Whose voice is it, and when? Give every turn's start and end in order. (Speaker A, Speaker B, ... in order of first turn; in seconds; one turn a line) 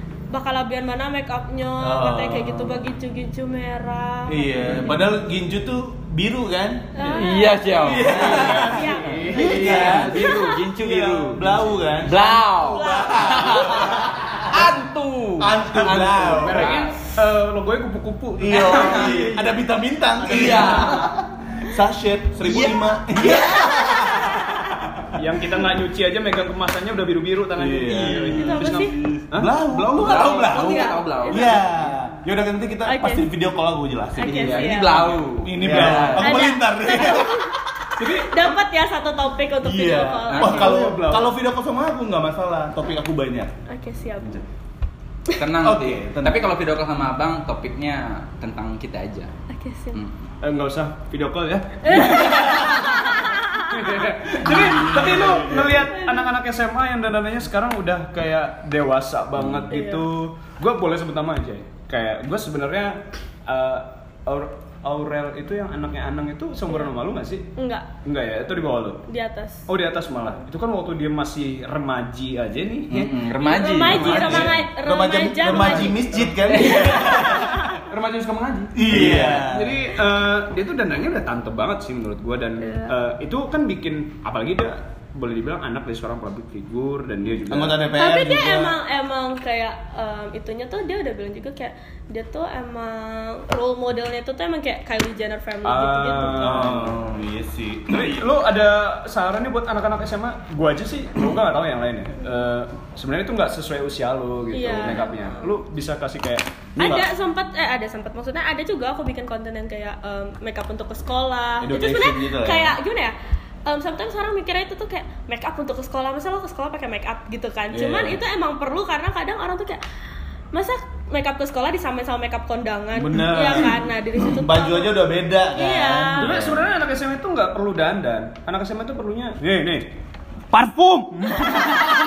Speaker A: 0.3-5.1
Speaker B: 1.8-2.8
Speaker B: 4.3-7.0
Speaker A: 7.0-10.6
Speaker C: 7.1-16.9
Speaker B: 7.8-14.7
Speaker D: 8.3-9.9
Speaker A: 12.2-14.0
Speaker B: 15.4-16.8
Speaker D: 15.8-19.5
Speaker B: 18.4-25.1
Speaker C: 18.5-19.2
Speaker D: 20.2-21.0
Speaker C: 20.2-21.1
Speaker C: 22.4-24.4
Speaker D: 25.1-29.5
Speaker B: 27.6-37.9
Speaker C: 27.9-28.8
Speaker A: 28.3-29.0
Speaker C: 29.7-31.9
Speaker A: 29.9-31.6
Speaker A: 32.9-33.3
Speaker A: 34.2-35.2
Speaker C: 34.3-36.5
Speaker D: 35.6-36.3
Speaker A: 36.2-40.8
Speaker D: 38.0-38.5
Speaker B: 39.6-43.5
Speaker C: 40.3-40.7
Speaker D: 40.5-41.3
Speaker A: 43.7-44.4
Speaker C: 45.4-49.3
Speaker B: 45.6-46.5
Speaker A: 49.5-50.0
Speaker C: 49.9-50.2
Speaker D: 50.4-67.5
Speaker A: 51.8-54.1
Speaker B: 54.4-55.9
Speaker A: 55.9-56.3
Speaker A: 59.6-60.1
Speaker A: 67.6-67.9
Speaker D: 68.0-69.1
Speaker A: 69.1-69.6
Speaker D: 69.7-73.2
Speaker C: 72.9-74.5
Speaker A: 73.4-77.8
Speaker D: 73.8-74.6
Speaker B: 74.0-77.7
Speaker D: 75.4-87.8
Speaker C: 76.6-77.0
Speaker B: 78.8-79.9
Speaker A: 82.6-82.9
Speaker B: 87.5-88.8
Speaker A: 88.0-96.8
Speaker D: 95.6-97.0
Speaker B: 96.4-98.2
Speaker D: 97.9-106.4
Speaker A: 104.5-105.6
Speaker B: 106.8-107.1
Speaker A: 106.8-113.1
Speaker B: 111.6-112.8
Speaker A: 113.7-119.8
Speaker B: 117.7-118.2
Speaker A: 120.5-125.0
Speaker B: 123.0-126.6
Speaker A: 125.6-126.5
Speaker D: 126.2-129.9
Speaker B: 130.5-131.7